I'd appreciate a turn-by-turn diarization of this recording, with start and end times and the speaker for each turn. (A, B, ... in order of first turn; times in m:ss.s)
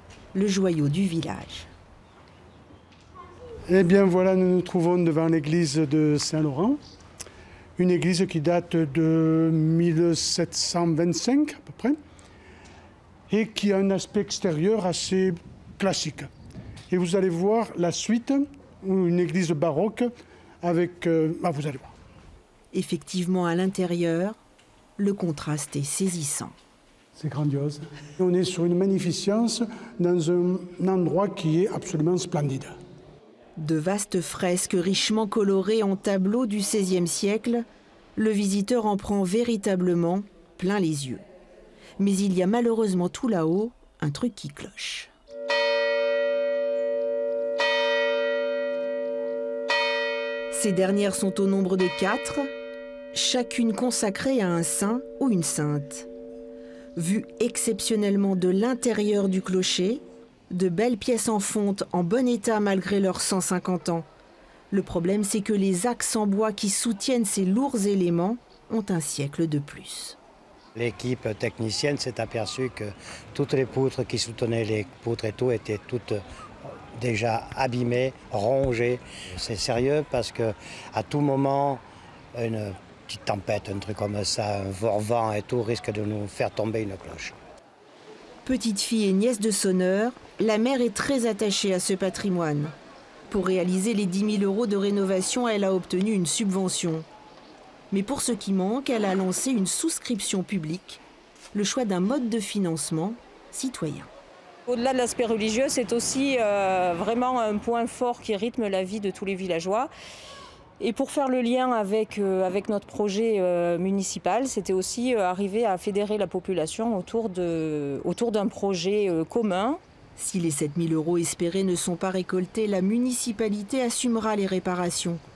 0:00.3-0:01.7 A
0:03.7-0:06.8 B
0:07.8-0:12.0 B
0:13.3-0:16.3 B
0:16.9-0:20.1 B
0:20.6-0:21.9 B
0:22.7-0:24.4 A
0:25.0-0:26.5 A
0:27.2-0:32.8 B
0:33.6-0:37.6 A
0:38.2-0:41.2 A
0:42.0-0:45.1 A
0:50.5-0:52.5 A
0:53.1-0:56.1 A
0:57.0-1:04.0 A
1:04.7-1:10.2 A
1:10.8-1:16.2 C
1:16.9-1:21.8 C
1:22.3-1:27.4 C
1:28.4-1:32.7 A
1:33.3-1:37.0 A
1:37.9-1:41.0 A
1:41.5-1:44.1 A
1:44.7-1:49.9 D
1:50.8-1:59.8 D
2:00.2-2:05.2 A